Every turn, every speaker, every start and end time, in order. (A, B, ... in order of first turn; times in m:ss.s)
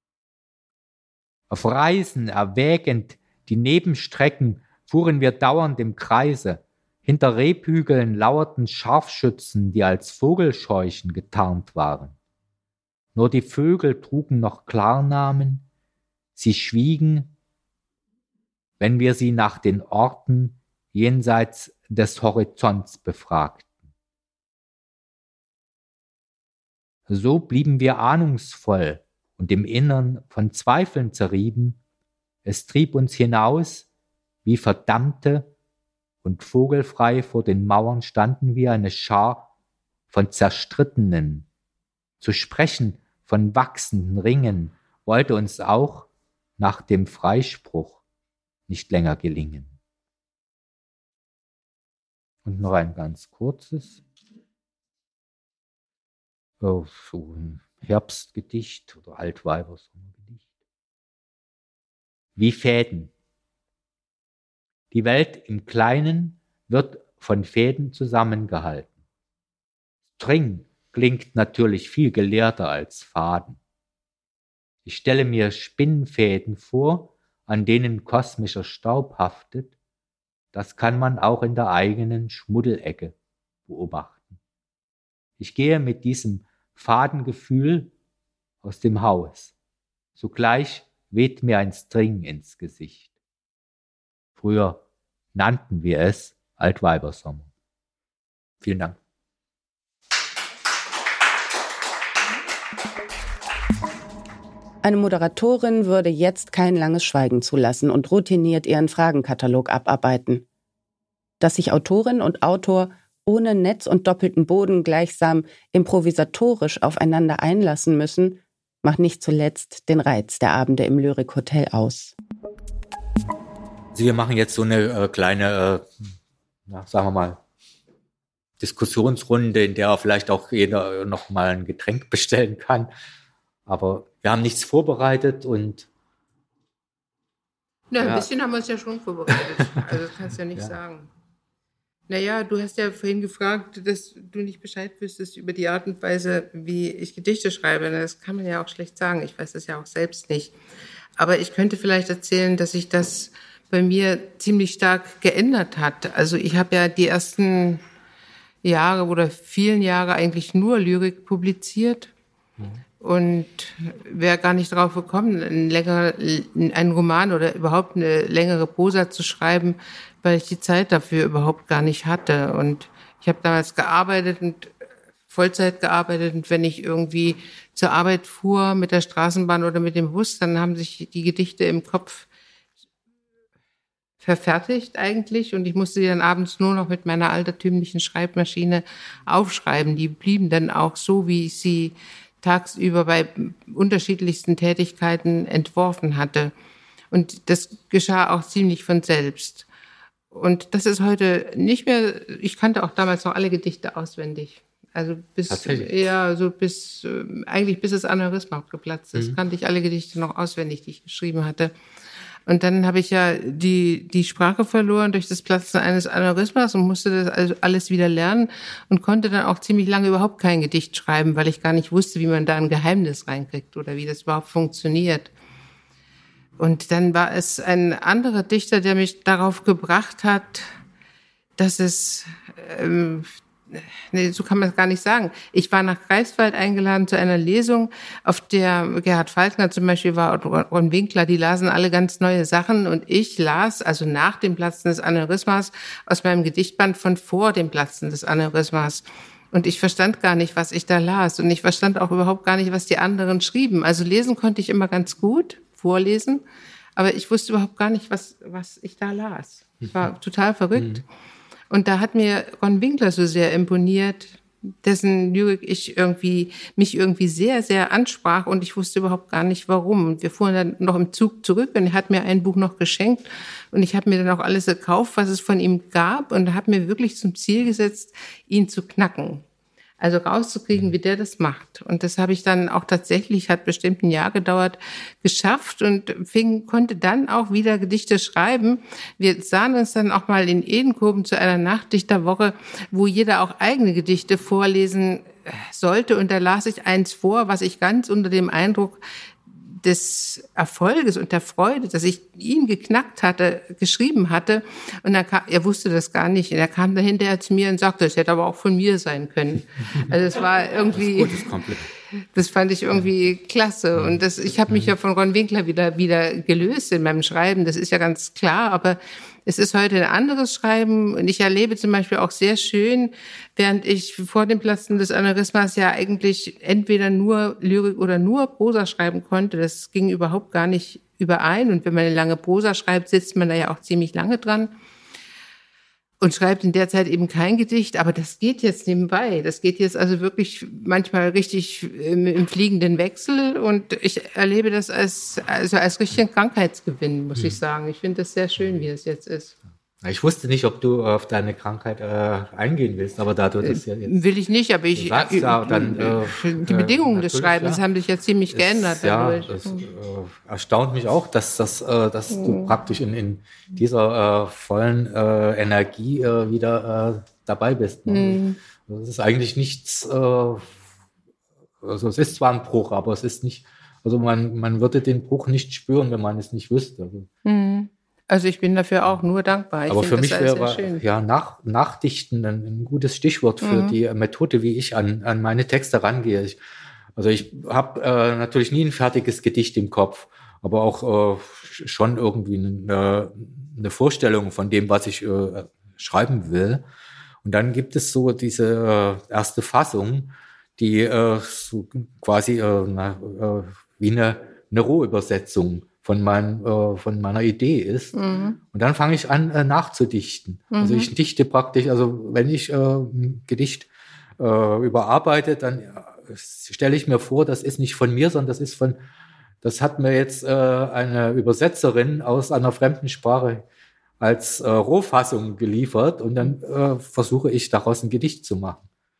0:01.5-0:12.2 A
0:13.1-0:15.6 A
0:16.4-0:17.3 A
0:18.8-0:23.7 A
0:27.1-0:31.8 A
0:32.4-0:33.9 A
0:34.4-0:35.5 A
0:36.2-0:39.5 A
0:40.1-0:41.4 A
0:42.2-0:48.0 A
0:48.7-0:49.7 A
0:52.4-0:54.0 A
0:56.6-1:00.4 A
1:02.4-1:03.1 A
1:04.9-1:08.9 A
1:10.2-1:13.6 A
1:14.8-1:19.7 A
1:20.5-1:23.1 A
1:23.7-1:24.4 A
1:25.4-1:27.9 A
1:28.6-1:29.5 A
1:30.2-1:33.1 A
1:34.4-1:34.8 A
1:35.3-1:37.5 A
1:38.6-1:39.0 A
1:44.8-1:50.4 B
1:51.4-2:02.1 B
2:03.9-2:05.9 A
2:06.7-2:07.4 A
2:08.6-2:12.9 A
2:13.6-2:15.9 A
2:17.9-2:21.1 C
2:18.0-2:18.3 A
2:22.1-2:30.5 C
2:31.2-2:37.8 C
2:38.6-2:42.1 C
2:43.0-2:54.7 C
2:55.3-3:02.3 C
3:04.2-3:16.5 C
3:17.1-3:19.7 C
3:20.3-3:31.7 C
3:25.5-3:26.0 A
3:32.4-3:45.3 C
3:46.6-3:50.7 C
3:51.6-4:16.4 C
4:17.0-4:21.0 C
4:21.7-4:39.4 C
4:40.0-5:11.4 C
5:10.9-5:11.9 A
5:12.2-5:34.8 C
5:14.7-5:14.9 A
5:36.2-5:49.5 C
5:50.0-5:54.2 A
5:53.6-5:59.8 C
5:54.9-5:57.8 A
5:58.5-6:10.7 A
6:02.3-6:02.7 C
6:08.1-6:08.6 C
6:11.8-6:17.3 A
6:17.4-6:21.0 C
6:19.9-6:26.6 A
6:23.6-6:24.0 C
6:27.2-6:36.8 A
6:37.4-6:48.1 A
6:48.1-6:48.6 C
6:48.7-6:53.9 A
6:50.7-6:51.1 C
6:54.4-6:59.0 A
6:59.6-7:03.6 A
7:04.2-7:08.8 A